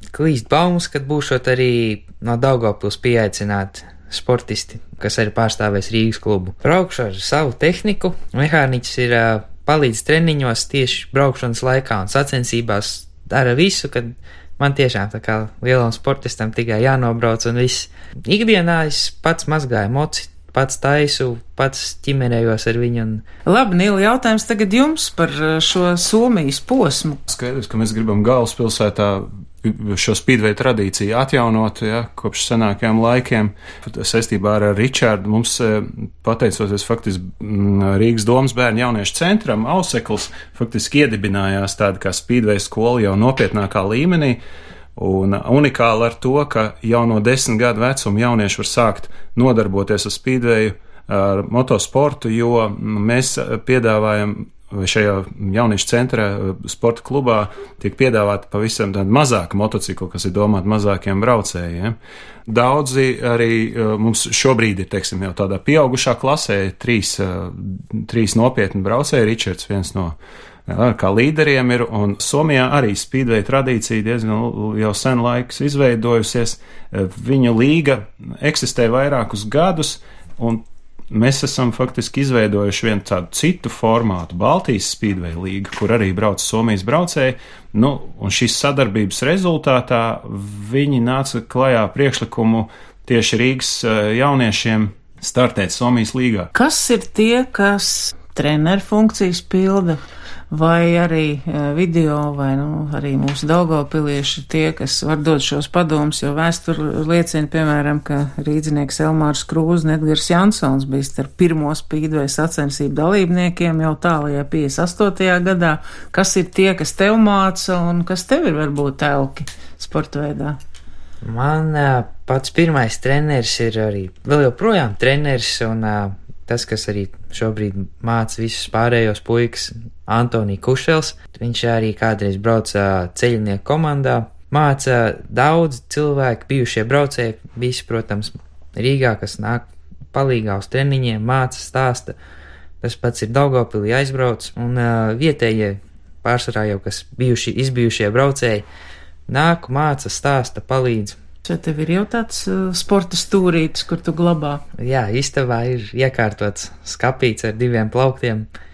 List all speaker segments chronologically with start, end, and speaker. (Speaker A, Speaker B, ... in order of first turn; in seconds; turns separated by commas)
Speaker A: 0.1-23.2, Speaker B: 23.5-27.2, Speaker C: 27.3-44.4, Speaker C: 45.0-61.9, Speaker C: 62.5-70.2, Speaker C: 70.7-96.5, Speaker B: 96.5-100.0, Speaker B: 100.5-120.6, Speaker A: 121.2-142.2, Speaker A: 142.8-148.6, Speaker A: 149.3-151.2, Speaker B: 151.4-154.6, Speaker A: 154.8-158.5